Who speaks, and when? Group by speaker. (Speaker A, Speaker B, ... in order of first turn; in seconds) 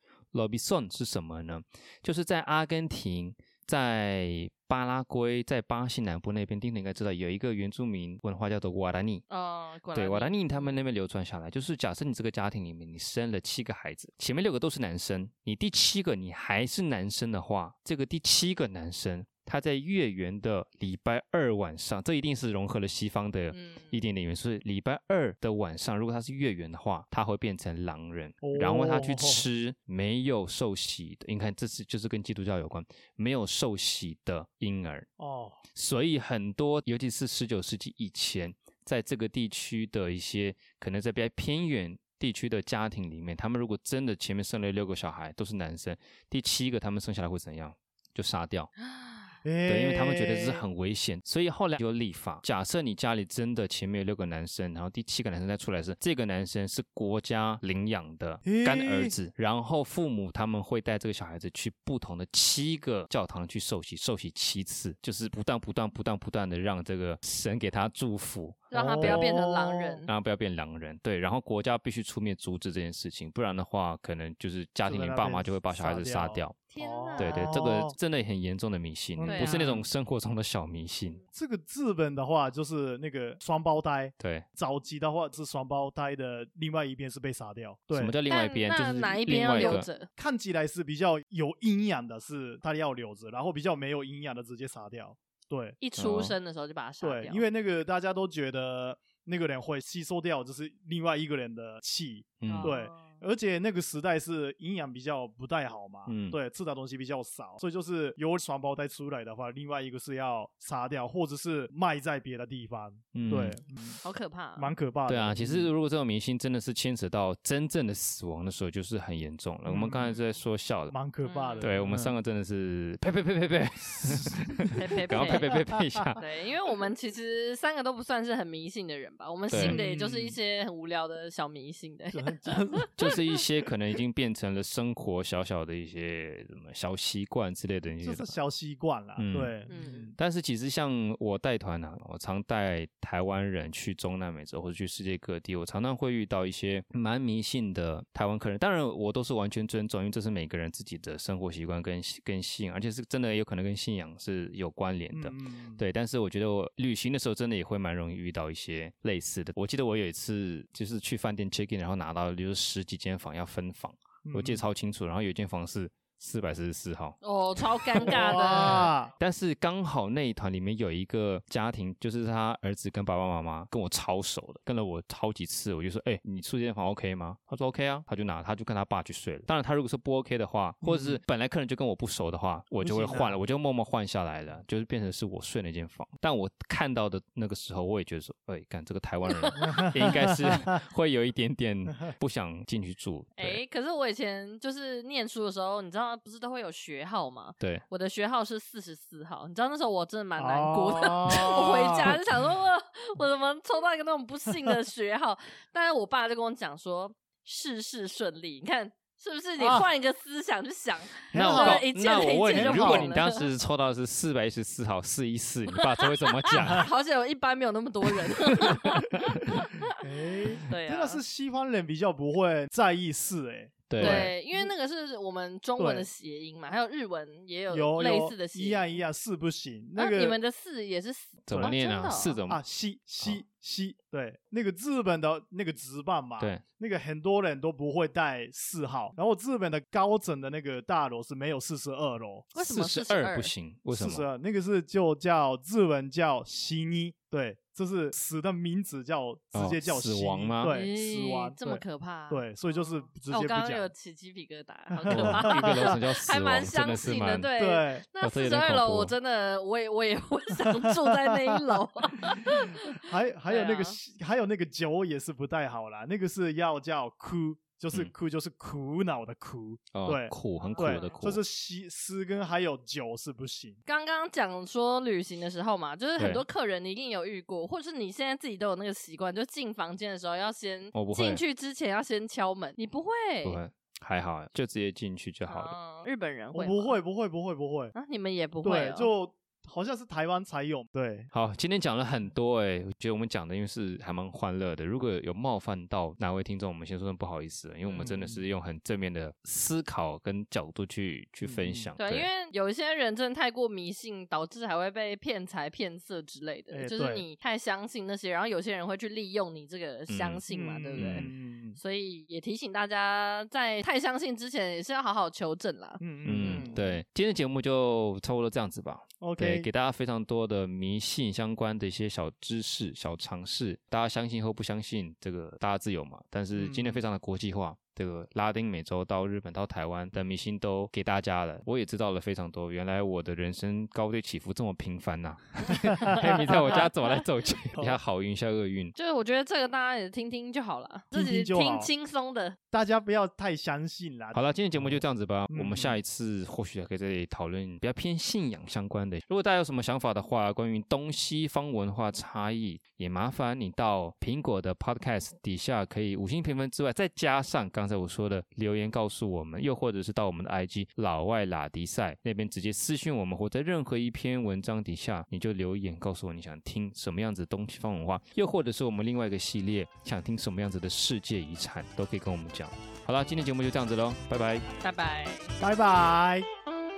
Speaker A: 0.3-9.2, 9.9-35.1, 35.7-48.7, 49.6-69.3, 70.1-76.6, 77.2-81.2, 84.2-84.5, 87.9-89.9, 96.0-96.3, 102.4-102.7, 106.1-106.4, 113.1-113.6, 115.1-120.9, 121.6-126.2, 129.5-129.8, 133.0-138.3, 139.2-139.5, 140.2-193.6, 211.3-216.9, 218.6-219.5, 223.9-224.3, 231.4-232.6, 242.6-244.2, 249.5-250.7, 255.1-257.5, 258.2-259.1, 269.9-271.4, 276.2-276.4, 280.9-281.4, 283.4-285.7, 291.3-302.3, 310.1-310.4, 310.9-311.3, 316.2-338.9, 344.3-374.7
Speaker B: 9.3-10.8, 23.5-24.0, 48.8-49.3, 68.7-70.1, 76.7-77.6, 79.2-79.8, 88.3-90.1, 95.8-97.4, 102.5-103.2, 113.7-114.7, 120.1-120.4, 121.2-121.7, 124.7-125.6, 126.2-133.1, 139.7-140.1, 167.2-168.9, 189.3-189.7, 193.4-213.5, 215.7-220.0, 220.7-221.2, 224.0-228.9, 230.0-232.4, 242.5-243.5, 250.7-264.0, 270.6-271.2, 273.9-283.6, 285.5-287.0, 287.9-289.1, 302.0-316.7, 338.9-342.6, 374.8-375.5
Speaker C: 28.4-29.4, 35.2-35.6, 49.4-50.6, 58.4-59.1, 68.7-70.0, 74.8-77.9, 79.2-79.8, 81.3-88.1, 89.5-95.8, 97.0-114.0, 114.6-115.7, 119.7-120.1, 120.9-122.1, 124.1-126.1, 129.5-130.4, 132.1-132.9, 138.0-140.1, 155.1-155.8, 164.2-164.6, 168.0-169.1, 180.8-181.2, 182.8-183.4, 189.6-190.8, 200.4-202.2, 209.6-209.9, 211.3-211.8, 212.5-213.1, 219.9-224.7, 225.8-226.1, 227.7-230.4, 231.5-231.8, 232.5-242.5, 243.9-253.9, 254.9-255.9, 257.6-258.0, 260.5-273.8, 286.5-287.9, 288.6-291.3, 297.9-298.4, 301.4-301.9, 306.7-307.2, 310.5-311.8, 316.0-317.0, 319.2-319.7, 326.6-327.0, 336.0-336.8, 341.1-341.9, 342.7-346.0, 375.6-376.5